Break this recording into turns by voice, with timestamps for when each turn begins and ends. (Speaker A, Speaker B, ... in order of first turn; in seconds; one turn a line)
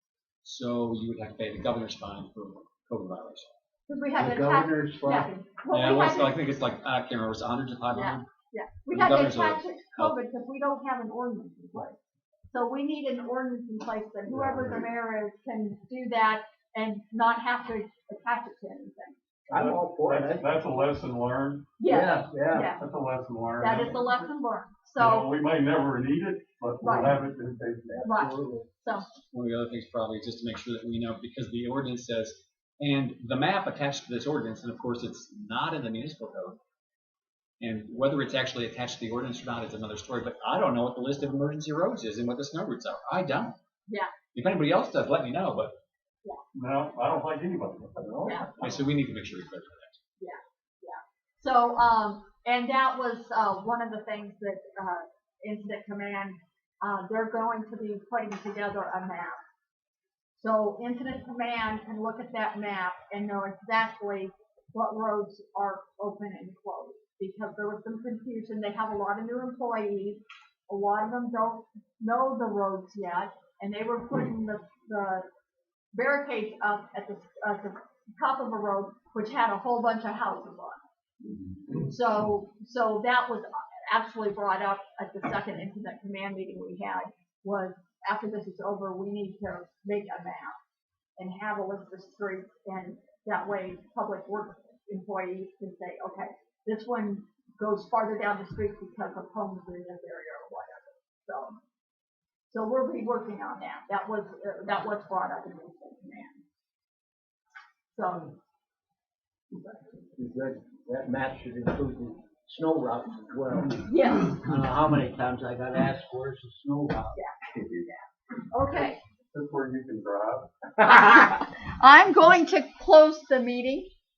Speaker A: 0.4-3.5
Speaker B: 3.9-6.4
Speaker C: 4.2-5.3
Speaker A: 5.7-8.3
Speaker B: 7.9-12.0
Speaker A: 8.9-10.2
Speaker B: 12.5-19.2
Speaker C: 14.3-14.9
Speaker C: 19.5-20.5
Speaker D: 19.5-21.7
Speaker B: 21.8-22.8
Speaker C: 21.9-22.7
Speaker D: 22.7-24.2
Speaker B: 23.6-25.3
Speaker D: 25.0-28.1
Speaker B: 26.8-27.2
Speaker C: 27.9-28.7
Speaker B: 28.0-29.1
Speaker A: 29.3-36.6
Speaker A: 37.6-43.6
Speaker B: 43.9-44.1
Speaker A: 44.3-45.8
Speaker D: 46.5-48.5
Speaker B: 48.2-48.5
Speaker A: 48.6-50.0
Speaker B: 50.2-59.4
Speaker B: 60.4-75.3
Speaker B: 75.9-80.8
Speaker B: 81.8-90.6
Speaker B: 91.2-101.6
Speaker B: 102.5-106.4
Speaker B: 107.9-108.4
Speaker B: 109.5-110.0
Speaker C: 110.2-117.2
Speaker B: 113.9-114.5
Speaker B: 117.2-119.0
Speaker D: 117.5-117.9
Speaker D: 118.7-120.5
Speaker B: 120.8-123.9